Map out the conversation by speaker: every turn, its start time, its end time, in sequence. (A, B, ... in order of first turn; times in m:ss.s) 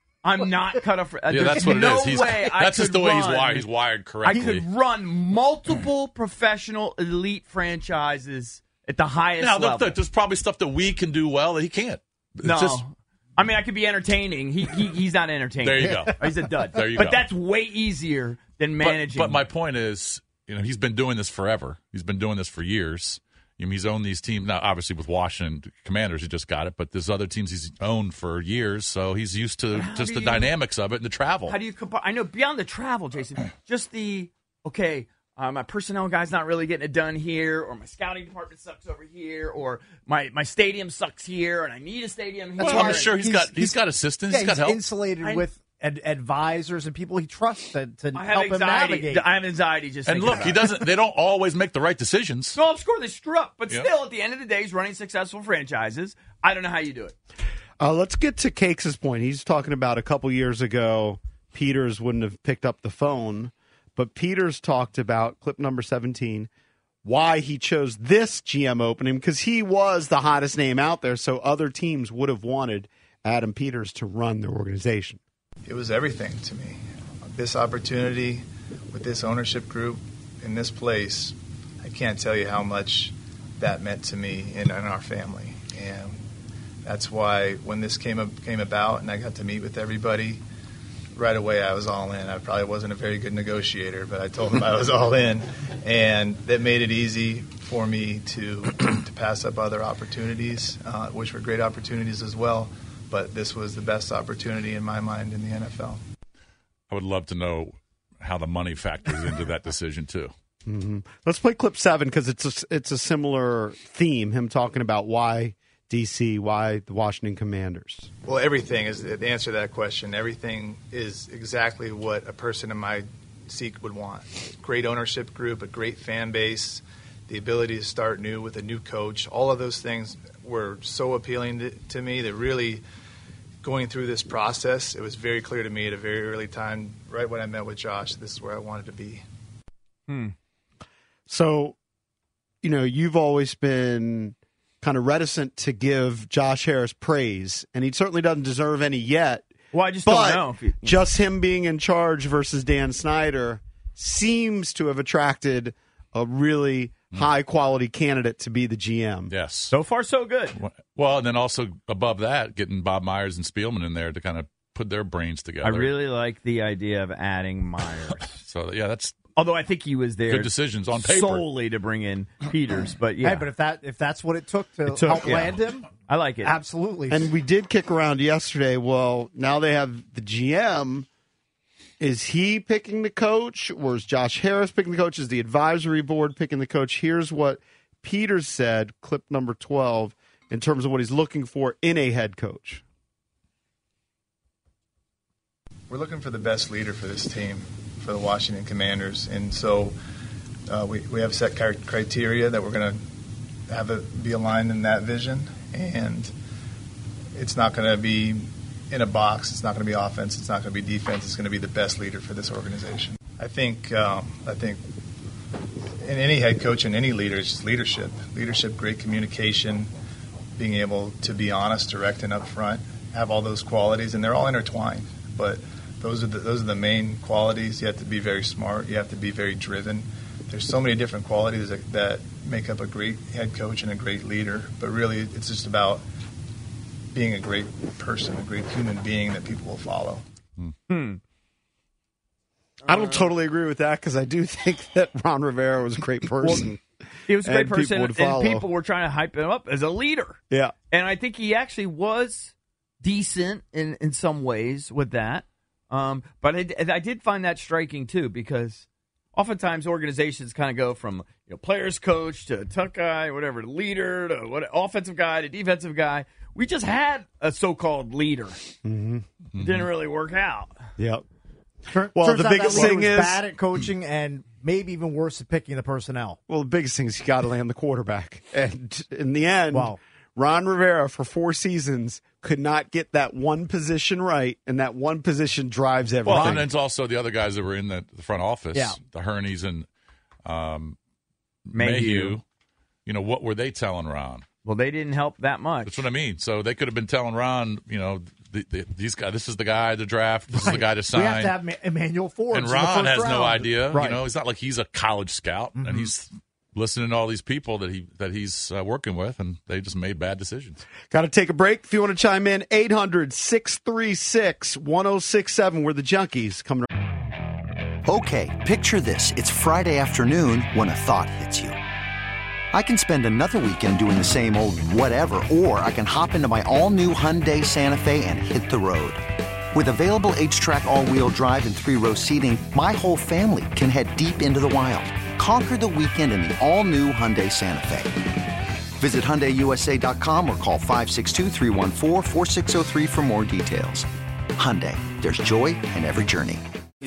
0:00.2-0:03.7 A
0:01.3-0:04.6 B
0:04.2-0:10.0 A
0:09.4-0:12.8 B
0:12.4-0:19.4 A
0:15.6-0:17.2 B
0:18.8-0:31.6 B
0:29.7-0:30.5 A
0:31.5-0:43.1 A
0:42.6-0:49.3 C
0:42.6-0:44.8 B
0:48.1-0:50.7 A
0:50.1-0:52.6 B
0:52.5-0:57.1 A
0:57.8-1:06.5 D
1:07.0-1:15.2 D
1:15.6-1:26.2 E
1:26.8-1:30.4 E
1:31.1-1:46.0 E
1:46.9-1:50.3 B
1:50.6-1:58.1 D
1:58.2-2:12.8 E
2:13.6-2:19.2 E
2:20.1-2:20.3 A
2:21.3-2:21.8 D
2:22.6-2:29.5 D
2:29.7-2:31.0 A
2:30.0-2:39.3 D
2:39.3-2:39.7 B
2:39.7-2:40.6 A
2:40.6-2:45.9 B
2:45.6-2:48.4 A
2:48.4-2:49.2 B
2:49.4-2:53.5 A
2:50.3-2:51.4 B
2:53.2-2:55.9 C
2:54.9-2:56.5 A
2:56.4-2:57.3 C
2:57.1-3:01.1 D
3:02.0-3:12.8 D
3:15.9-3:20.0 E
3:20.7-3:23.0 E
3:23.7-3:26.3 E
3:27.3-3:34.8 E
3:36.0-3:39.9 E
3:40.6-3:56.0 E
3:57.1-4:00.2 E
4:00.9-4:01.2 A
4:02.8-4:06.8 D
4:02.9-4:03.3 A
4:07.3-4:28.6 A
4:07.4-4:08.7 D
4:28.8-4:29.2 D
4:29.5-4:29.9 B
4:29.6-4:30.7 A
4:31.0-4:31.2 D
4:31.9-4:36.4 C
4:32.1-4:33.4 D
4:32.7-4:33.0 A
4:36.5-4:46.7 D
4:39.7-4:40.0 C
4:46.2-4:49.9 B
4:46.2-4:46.6 A
4:50.4-4:51.0 B
4:51.7-4:52.4 B
4:51.7-4:52.4 A
4:53.0-4:54.4 B
4:54.6-4:56.0 A
4:55.8-5:01.5 B
5:00.5-5:04.2 C
5:02.5-5:10.8 B
5:05.8-5:06.1 C
5:11.1-5:16.8 D
5:18.0-5:21.8 F
5:22.7-5:38.3 F
5:39.0-5:46.6 F